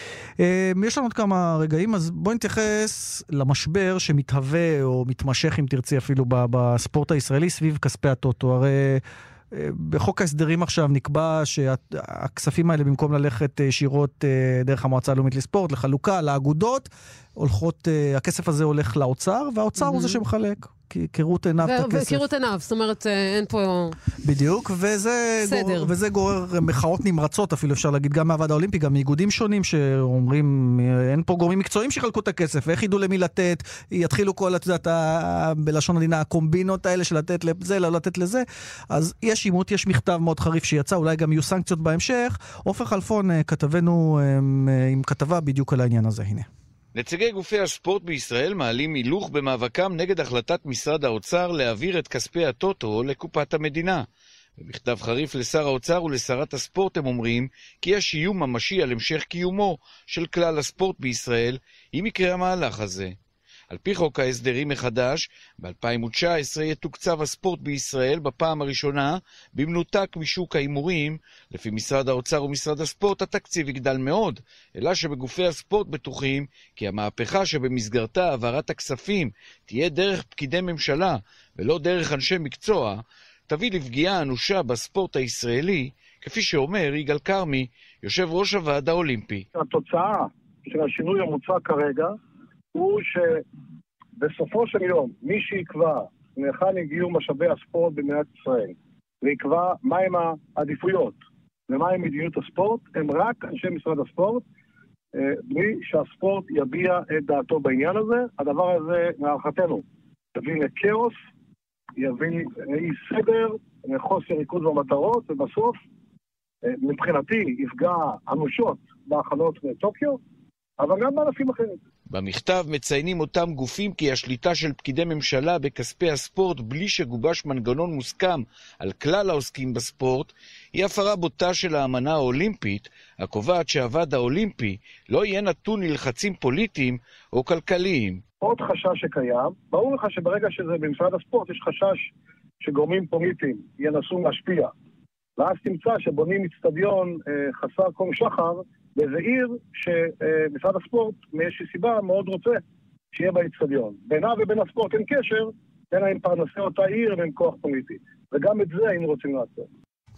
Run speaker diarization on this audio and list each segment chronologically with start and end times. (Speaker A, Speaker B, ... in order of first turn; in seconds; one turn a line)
Speaker A: 0.4-22.2
Speaker B: 19.8-20.2
Speaker B: 21.6-24.0
Speaker A: 24.2-46.5
Speaker B: 25.4-25.9
Speaker C: 47.0-54.0
Speaker C: 54.6-63.1
Speaker C: 63.7-89.5
Speaker D: 89.5-92.2
Speaker D: 92.7-93.5
Speaker D: 94.2-101.2
Speaker D: 101.7-104.4
Speaker D: 105.1-109.8
Speaker D: 110.3-111.2
Speaker D: 112.0-115.8
Speaker D: 116.7-120.2
Speaker D: 120.8-121.8
Speaker C: 122.1-138.2
Speaker D: 138.4-144.7
Speaker D: 145.4-152.6
Speaker D: 153.1-159.7